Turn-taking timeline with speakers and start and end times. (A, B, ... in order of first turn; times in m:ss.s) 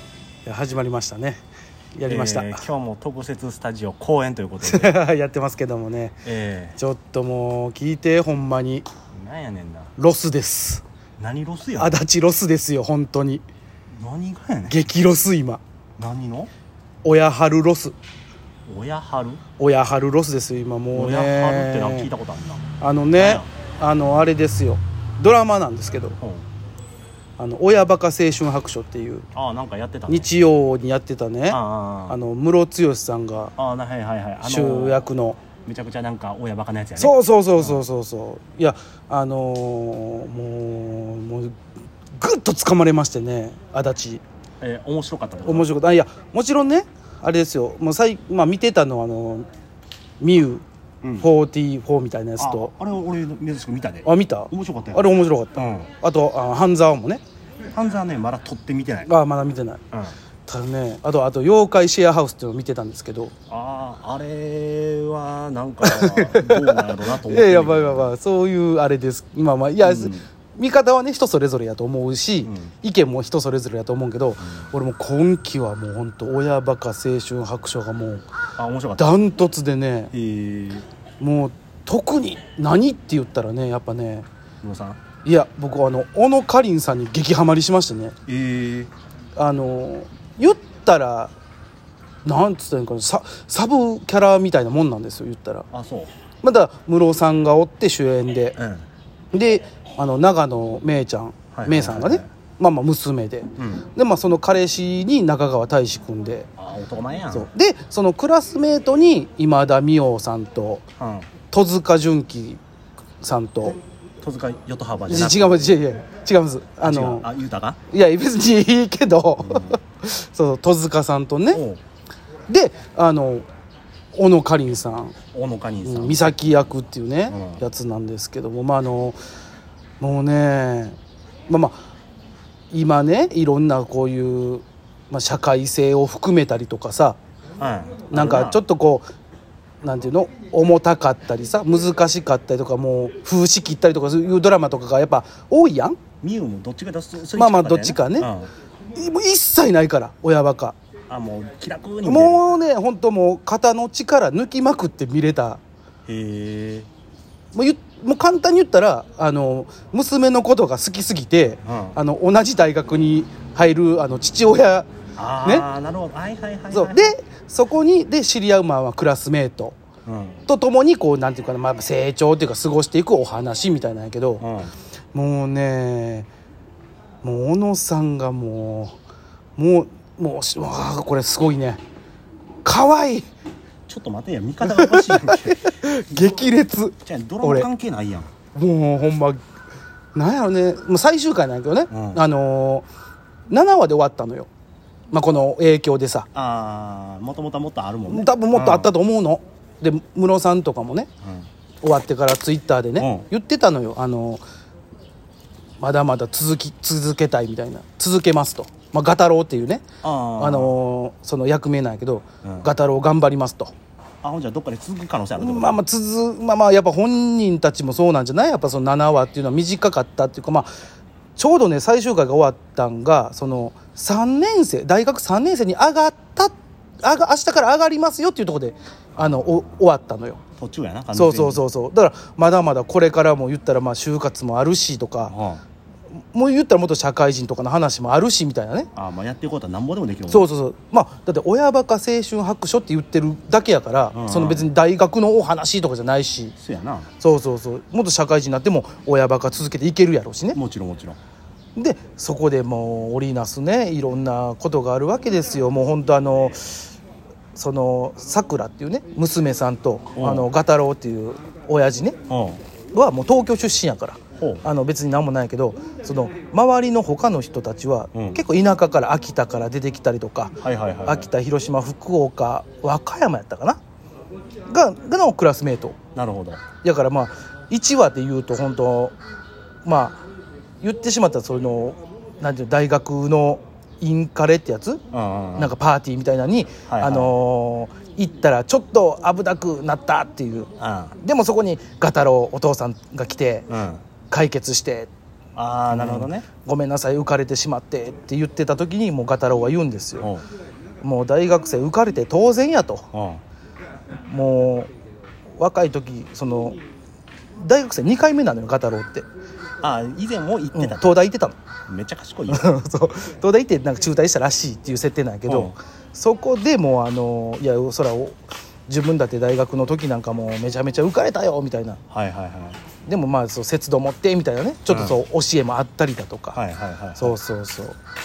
0:00.4-0:01.4 A
0:02.0-0:02.6 A
0:02.1-0:05.0 B
0:04.6-0:06.2 A
0:06.2-0:06.8 B
0:06.8-0:08.9 A
0:09.1-0:09.9 B
0:10.0-0:10.8 A
0:11.2-0:12.0 B
0:11.8-0:13.4 A
0:14.0-0:14.8 B
0:14.7-0:15.6 A
0:16.0-0:16.5 B
0:17.0-0:18.0 A
0:18.7-0:19.4 B
0:19.6-0:22.1 A
0:20.9-0:23.5 B
0:22.8-0:26.2 A
0:26.2-0:26.5 B
0:27.4-0:29.3 A
0:29.3-0:30.4 B
0:30.1-0:33.5 A
0:31.5-0:32.2 B
0:33.6-0:35.1 B
0:34.4-0:35.4 A
0:35.7-0:37.8 B
0:37.0-0:41.6 A
0:42.2-0:44.2 A
0:44.6-0:45.7 B
0:45.5-0:49.5 A
0:50.2-0:50.6 A
0:51.0-0:51.3 B
0:51.2-0:52.7 A
0:52.4-0:55.9 B
0:54.0-0:57.2 A
0:57.7-0:59.1 B
0:59.1-0:59.8 A
0:59.9-1:00.2 B
1:00.5-1:03.3 A
1:03.5-1:08.1 B
1:05.8-1:18.3 A
1:09.8-1:10.3 B
1:12.4-1:12.7 B
1:14.4-1:14.7 B
1:18.6-1:19.3 B
1:19.0-1:20.1 A
1:20.1-1:20.9 B
1:21.2-1:24.3 A
1:24.6-1:25.0 B
1:25.2-1:28.2 A
1:28.3-1:28.9 B
1:29.4-1:31.3 A
1:32.2-1:35.7 A
1:35.7-1:36.1 B
1:36.4-1:38.6 A
1:38.6-1:38.9 B
1:39.3-1:46.5 A
1:41.5-1:42.3 B
1:43.6-1:43.9 B
1:46.6-1:47.5 B
1:47.3-1:50.8 A
1:51.0-1:51.3 B
1:51.5-1:52.6 A
1:53.2-1:53.8 A
1:54.2-1:55.8 B
1:55.1-1:57.3 A
1:56.8-1:57.8 B
1:57.9-2:01.6 A
1:59.4-1:59.8 B
2:01.5-2:01.8 B
2:02.5-2:03.4 A
2:04.1-2:05.1 A
2:05.3-2:06.5 B
2:05.8-2:09.2 A
2:07.3-2:07.6 B
2:10.0-2:11.0 A
2:11.5-2:11.8 A
2:12.7-2:17.2 A
2:17.6-2:18.6 B
2:18.1-2:19.1 A
2:19.8-2:26.0 A
2:26.2-2:28.5 B
2:27.4-2:28.3 A
2:29.0-2:30.8 A
2:31.1-2:32.5 B
2:32.0-2:35.6 A
2:36.1-2:36.9 B
2:37.5-2:44.9 A
2:41.6-2:42.0 B
2:45.2-2:47.2 B
2:46.7-2:49.8 A
2:50.1-2:50.4 B
2:50.5-2:54.4 A
2:54.4-2:54.7 B
2:55.1-2:56.3 A
2:57.2-2:59.0 A
2:59.6-3:01.8 A
3:02.6-3:03.3 A
3:03.9-3:05.7 B
3:04.6-3:07.7 A
3:07.0-3:08.3 B
3:08.5-3:09.4 A
3:10.2-3:12.9 A
3:11.9-3:12.2 B
3:13.5-3:14.5 A
3:15.1-3:16.3 A
3:16.3-3:18.9 B
3:18.1-3:21.1 A
3:21.2-3:21.5 B
3:21.8-3:24.4 A
3:23.0-3:23.3 B
3:25.8-3:29.8 A
3:30.0-3:30.8 B
3:30.4-3:33.7 A
3:32.4-3:32.7 B
3:34.2-3:35.8 B
3:35.4-3:40.7 A
3:41.4-3:50.4 A
3:49.2-3:49.6 B
3:50.6-3:51.6 B
3:51.1-3:55.3 A
3:55.3-3:55.6 B
3:56.3-3:58.9 A
3:59.0-4:00.5 B
4:00.3-4:06.5 A
4:04.1-4:04.7 B
4:06.6-4:07.1 B
4:07.2-4:10.6 A
4:10.5-4:11.2 B
4:11.8-4:16.9 A
4:17.6-4:22.2 A
4:20.2-4:20.5 B
4:22.3-4:22.6 B
4:22.9-4:33.8 A
4:24.4-4:24.7 B
4:28.1-4:28.4 B
4:30.6-4:31.3 B
4:34.7-4:36.0 A
4:36.2-4:36.6 B
4:36.8-4:39.2 A
4:39.8-4:40.2 A
4:40.8-4:45.0 A
4:45.1-4:45.7 B
4:45.6-4:53.7 A
4:46.9-4:47.3 B
4:50.8-4:51.2 B
4:53.7-4:54.0 B
4:54.3-4:55.1 A
4:55.6-4:56.5 B
4:55.9-5:00.3 A
5:00.2-5:00.4 B
5:01.0-5:03.1 A
5:03.1-5:03.4 B
5:04.3-5:04.9 A
5:05.6-5:06.8 A
5:07.6-5:09.3 A
5:09.8-5:11.1 B
5:10.7-5:11.6 A
5:11.9-5:12.7 B
5:12.5-5:22.0 A
5:15.5-5:15.7 B
5:22.1-5:22.8 B
5:23.0-5:26.6 A
5:24.9-5:25.2 B
5:26.5-5:27.4 B
5:27.2-5:28.0 A